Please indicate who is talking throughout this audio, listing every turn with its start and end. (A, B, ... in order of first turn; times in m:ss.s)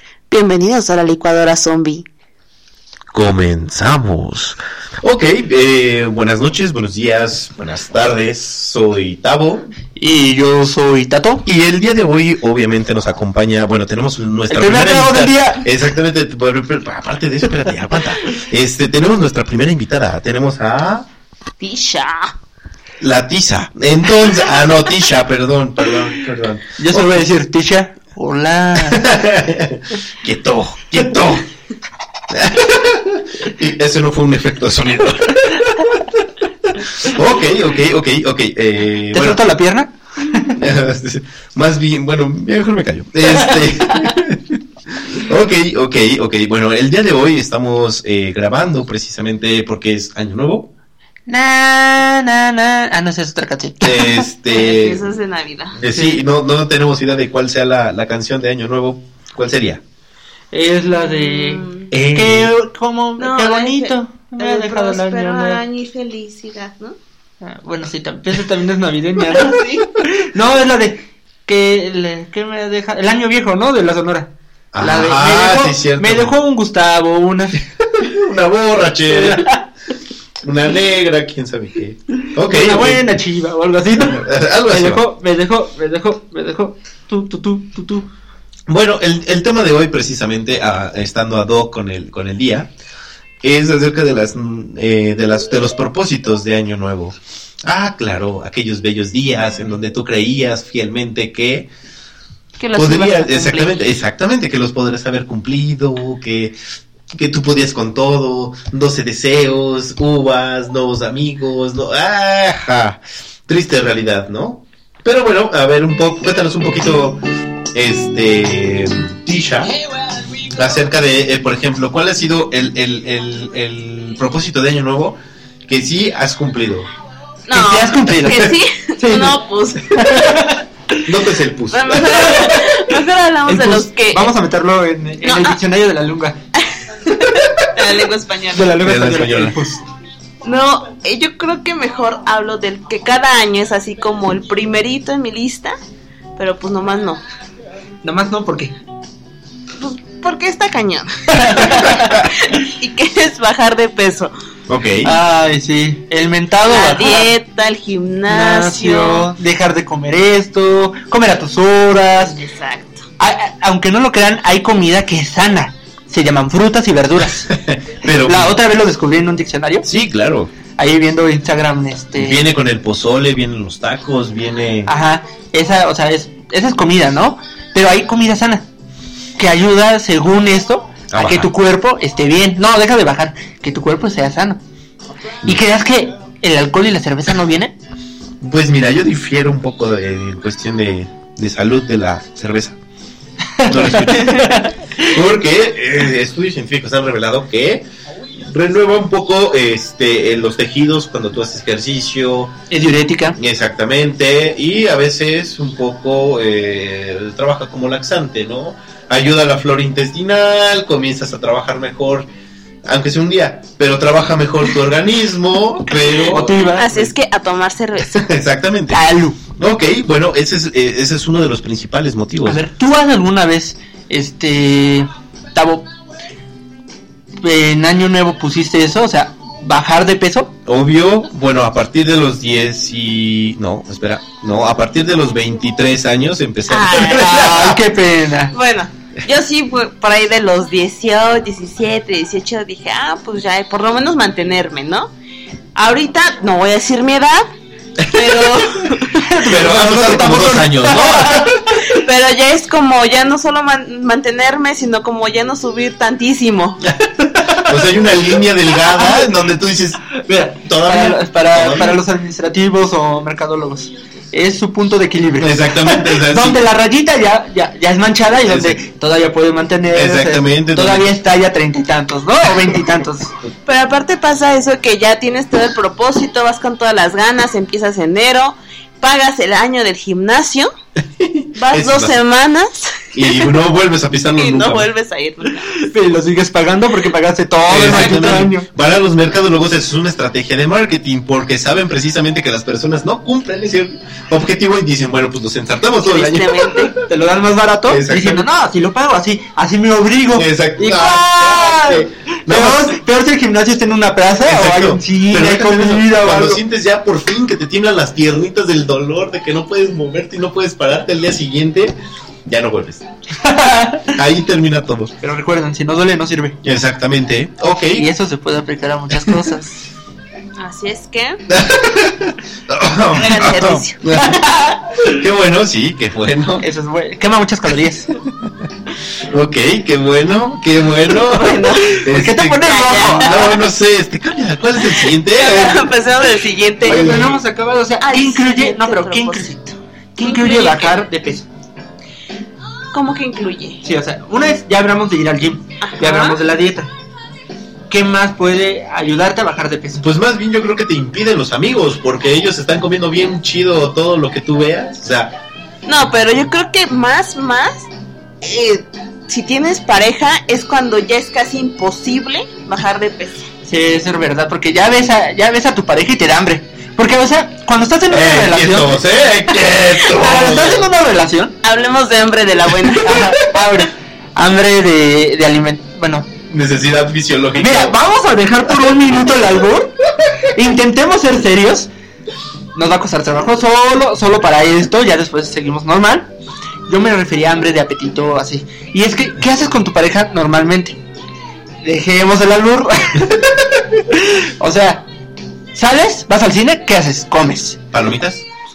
0:00.3-0:02.0 A
0:03.1-0:09.7 B
0:10.0-0:11.4 C
0:11.4-0:21.1 B
0:14.5-0:15.6 C
0:21.6-0:22.3 A
0:23.0-0:27.2 B
0:26.8-0:29.1 C
0:28.8-0:31.5 B
0:32.3-0:36.0 B
0:36.7-0:39.4 B
0:39.1-0:40.6 C
0:40.6-0:50.7 B
0:51.3-0:54.2 C
0:53.8-0:55.0 B
0:54.5-0:55.8 A
0:55.7-0:59.8 B
0:55.9-0:56.2 C
1:00.5-1:05.6 C
1:01.2-1:01.9 A
1:01.9-1:02.5 B
1:03.2-1:07.0 A
1:07.4-1:17.6 C
1:09.4-1:09.8 A
1:14.7-1:16.3 B
1:17.8-1:19.5 B
1:19.1-1:19.6 C
1:20.4-1:23.0 B
1:22.4-1:28.1 C
1:24.0-1:25.0 B
1:28.7-1:32.7 B
1:33.4-1:41.7 B
1:42.6-1:43.8 A
1:42.7-1:46.5 B
1:47.1-1:57.2 B
1:57.7-1:59.7 B
2:00.4-2:06.9 B
2:07.5-2:10.4 A
2:07.5-2:11.0 C
2:08.2-2:08.5 B
2:11.0-2:12.2 B
2:11.7-2:14.3 A
2:12.1-2:12.9 C
2:13.5-2:16.4 C
2:15.2-2:15.6 A
2:16.6-2:18.8 A
2:18.5-2:19.8 C
2:18.8-2:19.6 B
2:20.4-2:25.8 A
2:26.4-2:27.2 A
2:28.0-2:28.8 C
2:29.8-2:34.3 A
2:31.3-2:32.2 C
2:31.9-2:32.3 B
2:34.7-2:35.2 B
2:35.0-2:37.3 C
2:36.7-2:39.3 A
2:38.3-2:42.4 C
2:42.2-2:43.0 A
2:43.2-2:47.5 C
2:47.5-2:48.6 B
2:48.1-2:49.9 C
2:49.8-2:50.5 B
2:50.8-2:52.4 C
2:52.2-2:54.9 B
2:54.9-2:58.6 C
2:59.4-3:04.6 C
3:01.1-3:01.5 B
3:05.4-3:07.7 C
3:08.4-3:12.8 B
3:13.6-3:15.1 C
3:13.6-3:17.8 B
3:18.4-3:22.5 B
3:22.7-3:23.4 C
3:23.4-3:32.3 B
3:32.8-3:37.1 B
3:36.0-3:38.3 A
3:36.3-3:36.9 C
3:38.1-3:42.6 B
3:38.9-3:39.4 C
3:42.4-3:45.9 C
3:47.4-3:50.5 C
3:50.6-3:57.8 B
3:56.7-3:57.3 A
3:56.9-3:58.5 C
3:58.5-4:05.1 A
4:05.7-4:07.4 A
4:08.0-4:08.6 B
4:08.1-4:09.3 A
4:09.1-4:11.7 C
4:09.4-4:11.6 B
4:11.7-4:16.8 A
4:17.3-4:17.9 C
4:17.5-4:20.0 B
4:18.9-4:19.3 C
4:20.1-4:33.3 C
4:20.6-4:22.0 B
4:25.4-4:26.6 B
4:28.5-4:28.8 B
4:29.9-4:31.1 B
4:33.7-4:40.7 A
4:41.2-4:42.2 B
4:41.6-4:43.6 A
4:43.1-4:44.9 B
4:44.4-4:45.8 A
4:45.8-4:48.7 C
4:47.6-4:56.9 B
4:56.0-4:56.9 A
4:57.0-5:06.6 C
4:57.9-4:58.5 B
5:00.3-5:03.0 B
5:04.4-5:13.0 B
5:13.4-5:14.2 C
5:14.1-5:15.1 B
5:15.2-5:16.6 C
5:16.6-5:18.1 B
5:17.9-5:19.8 C
5:20.6-5:21.4 A
5:21.5-5:26.6 B
5:23.1-5:24.0 A
5:24.2-5:25.1 C
5:26.6-5:28.1 C
5:29.2-5:35.9 B
5:31.1-5:32.0 A
5:32.0-5:33.6 C
5:32.6-5:33.4 A
5:35.0-5:37.4 A
5:36.8-5:41.5 C
5:36.8-5:37.3 B
5:38.0-5:39.6 A
5:40.2-5:41.0 A
5:42.9-5:43.8 A
5:43.8-5:46.9 C
5:45.8-5:46.4 A
5:47.9-5:50.0 C
5:50.0-5:55.4 B
5:55.9-5:57.9 A
5:58.4-6:03.5 A
6:03.6-6:09.0 C
6:08.1-6:10.8 B
6:10.0-6:11.5 C
6:11.6-6:13.4 A
6:13.0-6:16.3 C
6:16.5-6:18.0 B
6:17.6-6:20.0 C
6:20.5-6:21.9 C
6:22.7-6:26.3 C
6:26.9-6:31.0 C
6:31.8-6:33.4 C
6:34.1-6:35.0 C
6:35.7-6:37.8 C
6:37.9-6:38.4 B